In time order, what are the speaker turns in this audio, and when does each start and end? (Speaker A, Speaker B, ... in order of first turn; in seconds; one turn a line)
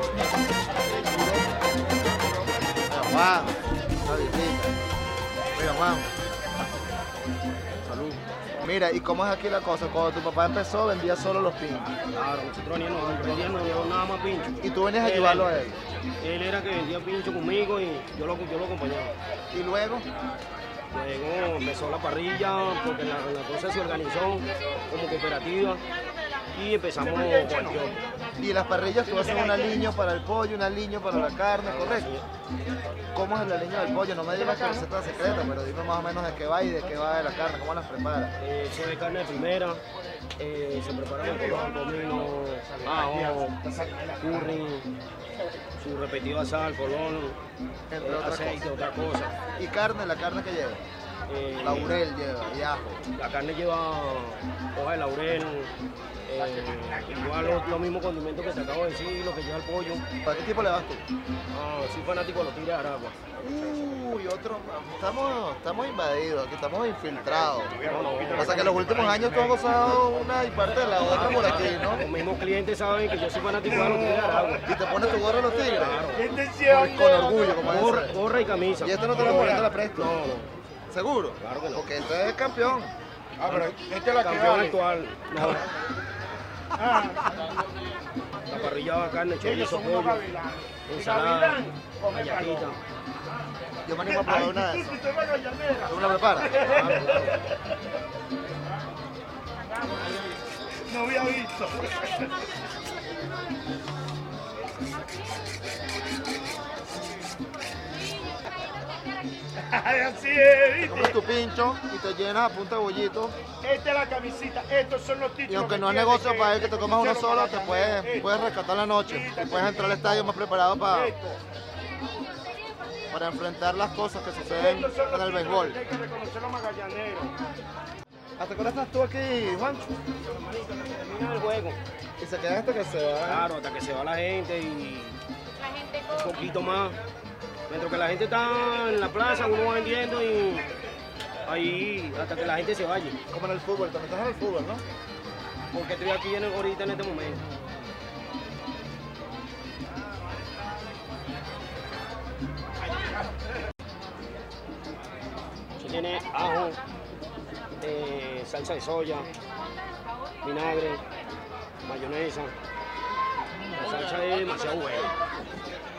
Speaker A: 2.9-4.8
Speaker A: 5.5-6.1
Speaker A: 7.8-11.9
Speaker B: 12.1-15.5
Speaker A: 14.6-15.8
Speaker B: 16.2-19.1
Speaker A: 19.5-20.1
Speaker B: 20.9-25.8
Speaker B: 26.5-27.9
Speaker C: 27.0-27.9
Speaker A: 28.4-32.1
Speaker C: 29.1-29.8
Speaker B: 31.6-32.2
Speaker A: 33.1-38.3
Speaker C: 34.4-35.0
Speaker B: 38.4-39.8
Speaker B: 40.4-43.6
Speaker C: 41.3-42.0
Speaker C: 42.7-44.5
Speaker B: 44.2-44.9
Speaker B: 45.8-47.4
Speaker A: 47.9-48.6
Speaker B: 48.0-49.4
Speaker A: 49.6-50.8
Speaker B: 51.3-52.0
Speaker A: 51.6-53.0
Speaker B: 53.1-55.7
Speaker B: 56.2-60.0
Speaker A: 60.2-61.0
Speaker B: 61.5-63.2
Speaker A: 63.4-67.8
Speaker C: 67.4-69.7
Speaker B: 67.8-68.8
Speaker A: 68.3-72.1
Speaker B: 71.1-74.7
Speaker C: 73.6-74.7
Speaker A: 74.6-76.0
Speaker B: 75.6-76.2
Speaker C: 76.1-77.8
Speaker A: 76.6-78.2
Speaker B: 77.6-80.5
Speaker A: 78.8-80.2
Speaker C: 79.1-79.7
Speaker A: 80.9-82.9
Speaker B: 81.4-81.9
Speaker C: 83.4-84.8
Speaker B: 83.5-85.7
Speaker C: 86.7-87.3
Speaker B: 88.5-90.2
Speaker C: 89.4-92.7
Speaker B: 90.9-92.8
Speaker A: 93.8-95.0
Speaker C: 94.0-97.5
Speaker A: 95.8-96.7
Speaker B: 96.5-97.5
Speaker C: 100.9-102.4
Speaker C: 109.5-111.2
Speaker A: 110.8-113.4
Speaker C: 113.6-118.3
Speaker A: 115.5-121.2
Speaker C: 119.0-120.2
Speaker C: 120.9-121.4
Speaker A: 123.1-125.8
Speaker C: 124.5-127.4
Speaker A: 128.4-129.9
Speaker B: 130.2-131.8
Speaker A: 132.2-133.5
Speaker B: 133.2-135.2
Speaker B: 135.7-137.0
Speaker B: 137.7-140.7
Speaker B: 141.4-143.2
Speaker A: 143.3-144.8
Speaker B: 145.7-147.4
Speaker B: 155.8-156.8
Speaker B: 157.8-159.3
Speaker B: 160.4-161.0
Speaker B: 161.8-162.5
Speaker B: 163.7-165.1